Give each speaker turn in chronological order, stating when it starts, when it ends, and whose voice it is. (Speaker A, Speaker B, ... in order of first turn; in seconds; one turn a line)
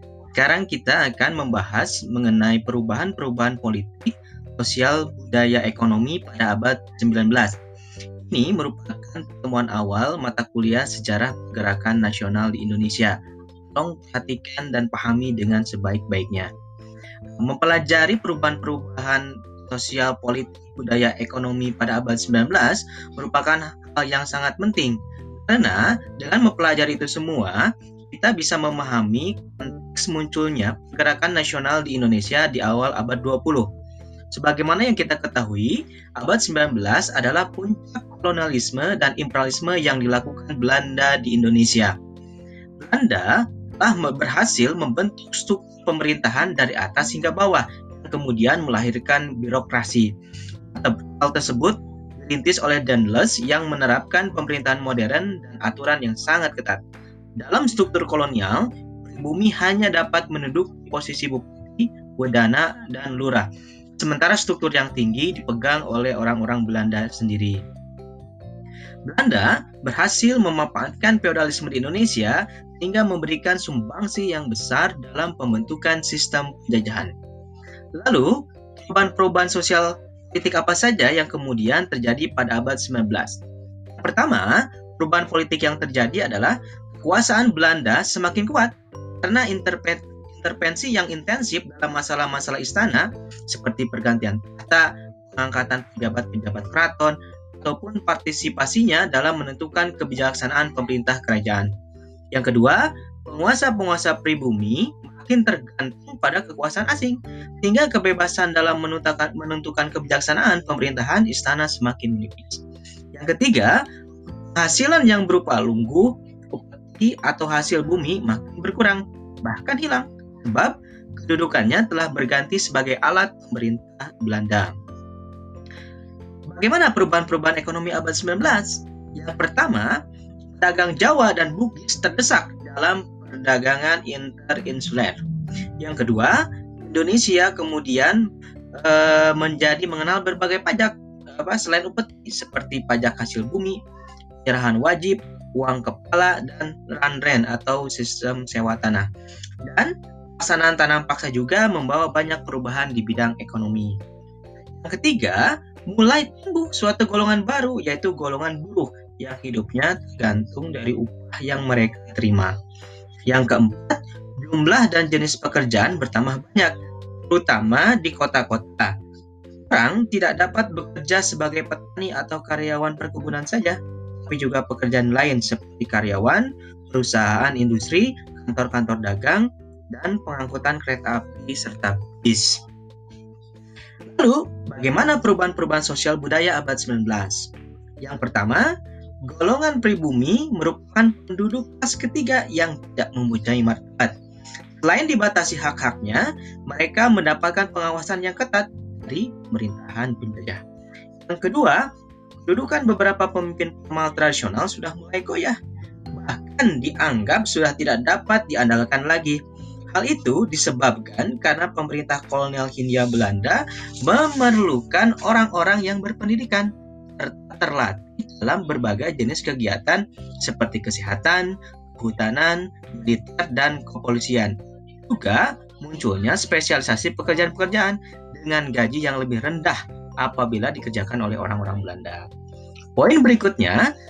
Speaker A: 0.3-7.5
Speaker A: 8.2-13.2
Speaker A: 13.7-16.5
Speaker A: 17.4-33.7
Speaker A: 34.3-41.9
Speaker A: 42.8-50.1
Speaker A: 50.7-56.8
Speaker A: 57.4-63.5
Speaker A: 64.0-67.6
Speaker A: 69.1-77.1
Speaker A: 78.0-83.4
Speaker A: 84.0-101.7
Speaker A: 102.3-113.8
Speaker A: 114.5-124.7
Speaker A: 126.5-129.9
Speaker A: 130.6-135.2
Speaker A: 135.8-138.2
Speaker A: 138.8-143.8
Speaker A: 144.4-149.1
Speaker A: 149.7-154.0
Speaker A: 154.8-162.5
Speaker A: 163.3-166.7
Speaker A: 167.3-168.9
Speaker A: 169.7-182.6
Speaker A: 184.1-187.5
Speaker A: 188.0-188.7
Speaker A: 189.3-194.1
Speaker A: 194.8-200.6
Speaker A: 201.2-201.8
Speaker A: 202.4-205.6
Speaker A: 206.1-209.4
Speaker A: 209.9-224.5
Speaker A: 225.1-232.2
Speaker A: 232.9-233.8